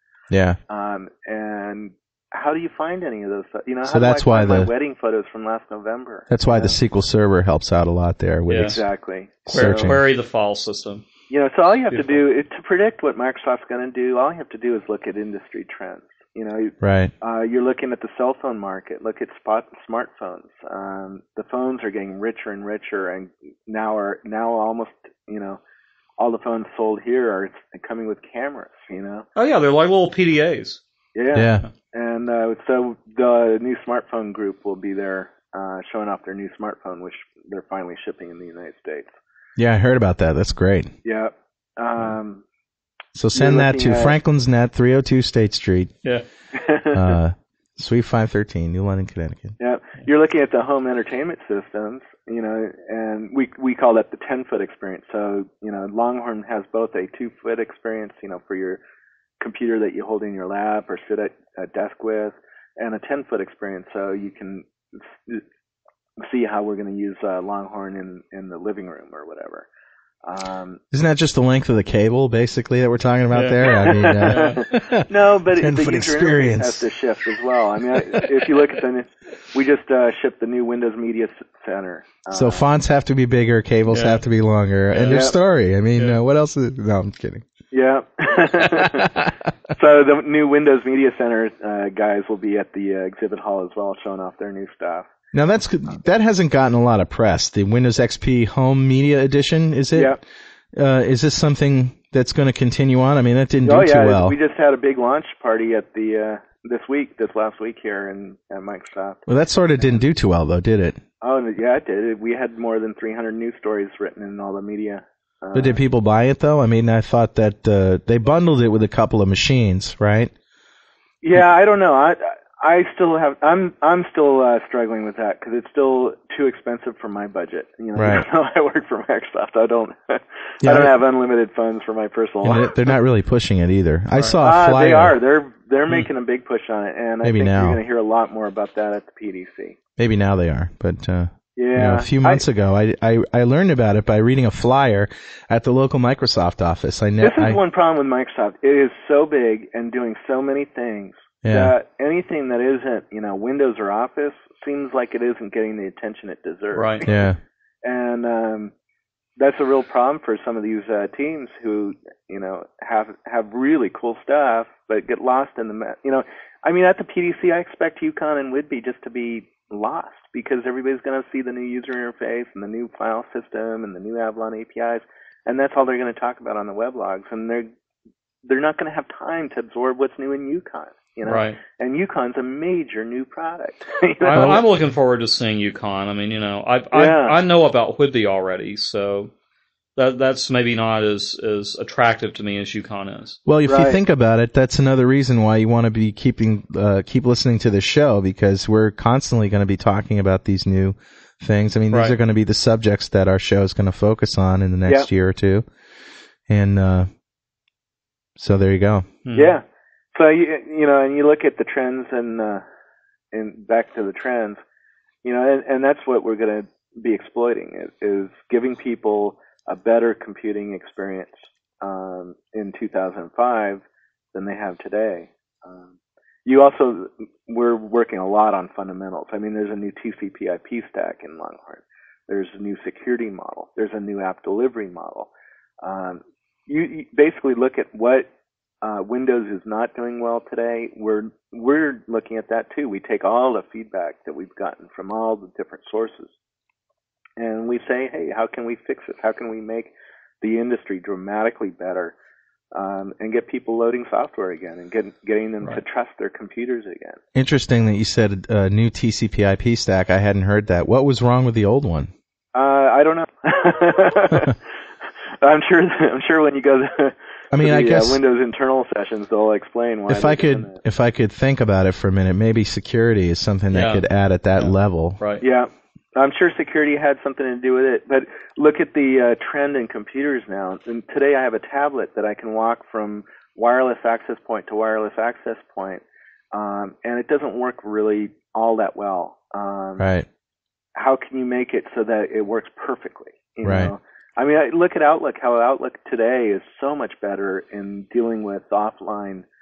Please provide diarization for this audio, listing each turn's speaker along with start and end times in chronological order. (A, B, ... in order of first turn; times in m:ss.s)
0:00.3-0:00.6 A
0:00.7-0:06.8 B
0:03.8-0:04.7 A
0:06.3-0:08.8 A
0:08.5-0:08.8 C
0:08.6-0:10.0 B
0:09.4-0:10.0 A
0:09.5-0:11.0 C
0:11.3-0:25.6 B
0:11.9-0:12.2 C
0:16.8-0:17.1 A
0:26.2-0:29.3 B
0:29.4-0:30.8 C
0:31.1-0:39.1 B
0:31.3-0:31.7 A
0:39.6-0:40.9 A
0:41.0-0:42.4 B
0:43.1-0:45.9 A
0:43.3-0:44.2 B
0:46.5-0:47.0 B
0:46.9-0:49.6 A
0:49.6-0:58.8 B
0:59.4-1:05.4 B
1:06.2-1:09.7 B
1:10.2-1:10.8 B
1:10.9-1:16.8 A
1:13.3-1:14.6 C
1:13.7-1:22.7 B
1:22.3-1:27.4 A
1:23.9-1:24.2 C
1:24.9-1:25.2 C
1:25.1-1:25.3 B
1:27.7-1:35.1 B
1:28.7-1:29.3 A
1:35.3-1:40.2 A
1:39.9-1:40.2 B
1:40.7-1:44.4 A
1:43.6-1:49.2 B
1:49.3-1:51.0 A
1:51.2-1:55.8 B
1:55.5-2:00.3 A
2:01.2-2:12.9 B
2:07.9-2:08.2 A
2:10.6-2:10.9 A
2:12.4-2:15.2 A
2:14.4-2:19.8 B
2:17.2-2:17.8 A
2:20.0-2:27.6 A
2:21.6-2:22.4 B
2:27.2-2:38.7 B
2:31.4-2:31.7 A
2:36.7-2:37.0 C
2:37.0-2:37.4 A
2:39.4-2:57.7 B
2:58.4-3:04.6 B
3:01.2-3:01.6 C
3:04.2-3:09.3 C
3:04.3-3:04.6 A
3:06.9-3:07.4 B
3:10.0-3:13.4 C
3:13.4-3:25.6 A
3:13.7-3:14.0 B
3:26.5-3:27.1 A
3:28.4-3:29.1 A
3:29.2-3:29.5 C
3:29.3-3:32.6 B
3:33.3-3:34.6 B
3:35.2-3:45.9 B
3:46.4-3:55.3 B
3:55.8-3:58.3 B
3:58.8-4:06.3 B
4:07.4-4:12.1 B
4:12.7-4:17.2 B
4:17.3-4:22.1 A
4:22.5-4:24.6 B
4:25.4-4:30.8 B
4:27.5-4:28.2 A
4:30.1-4:35.2 A
4:33.7-4:34.0 C
4:35.4-4:50.1 B
4:50.0-4:50.3 A
4:50.9-4:59.4 B
4:53.6-4:53.9 A